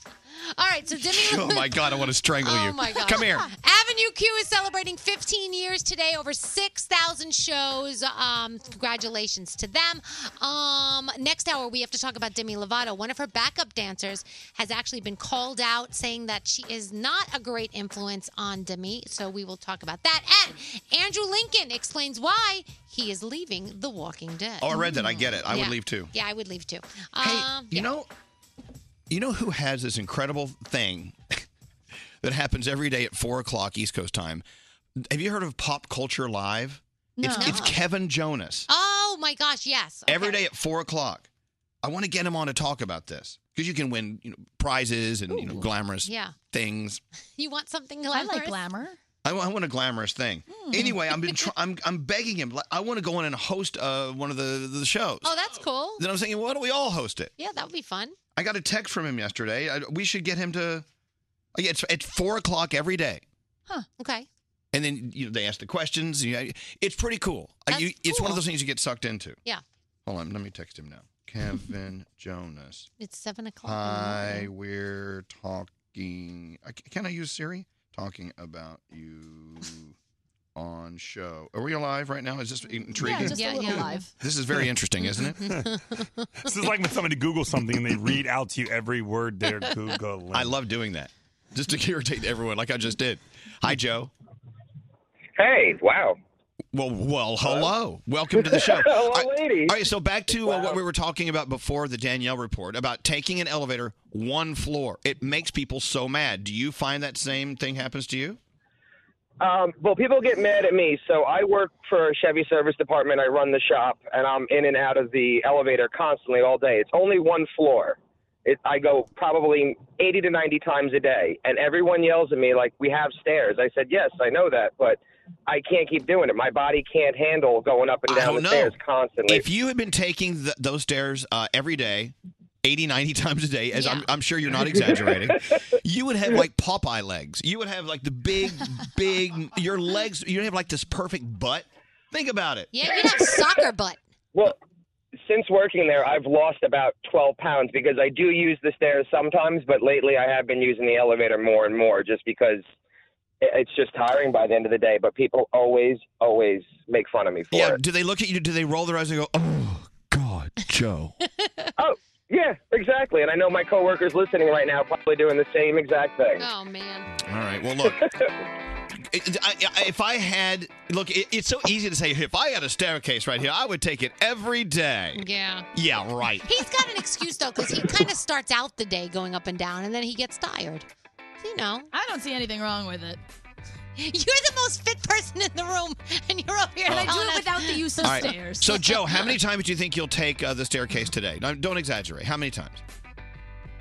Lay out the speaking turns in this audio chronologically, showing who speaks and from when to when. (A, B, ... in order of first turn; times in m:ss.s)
0:00.3-0:27.9 A
0:01.0-0:03.5 B
0:24.6-0:26.1 B
0:24.8-0:25.1 C
0:27.2-0:28.1 B
0:29.1-0:31.2 B
0:32.2-0:34.4 B
0:35.0-0:38.7 B
0:37.2-0:37.6 C
0:37.2-0:37.8 A
0:38.7-0:40.4 A
0:40.1-0:41.3 B
0:41.8-0:47.0 B
0:45.3-0:45.7 C
0:46.0-0:46.4 A
0:47.4-0:48.6 A
0:48.1-0:49.0 C
0:49.2-0:55.4 B
0:50.5-0:51.0 C
0:50.8-0:51.5 A
0:55.2-0:56.0 A
0:56.0-0:57.3 B
0:57.4-0:58.2 A
0:58.4-1:00.9 B
1:01.6-1:03.2 B
1:04.0-1:04.3 A
1:04.7-1:09.4 B
1:07.7-1:08.4 A
1:10.1-1:12.9 B
1:13.0-1:14.5 A
1:13.6-1:20.0 B
1:20.6-1:25.5 B
1:23.0-1:24.1 C
1:23.0-1:24.1 A
1:25.0-1:26.3 A
1:26.4-1:30.6 D
1:30.3-1:34.1 B
1:35.4-1:36.2 E
1:36.7-1:48.4 B
1:38.5-1:39.8 E
1:40.4-1:40.8 E
1:49.4-2:09.4 E
2:08.1-2:22.7 B
2:13.7-2:14.1 A
2:22.7-2:24.0 A
2:25.2-2:32.6 E
2:33.4-2:37.8 E
2:37.5-2:41.1 B
2:41.2-2:41.7 A
2:41.8-2:46.4 E
2:46.4-2:47.1 A
2:47.2-2:48.0 B
2:49.0-2:56.6 B
2:55.2-2:55.7 A
2:56.4-3:00.9 A
3:01.4-3:01.9 A
3:01.9-3:03.2 C
3:04.0-3:08.3 A
3:06.9-3:07.1 B
3:06.9-3:08.9 C
3:08.0-3:12.8 B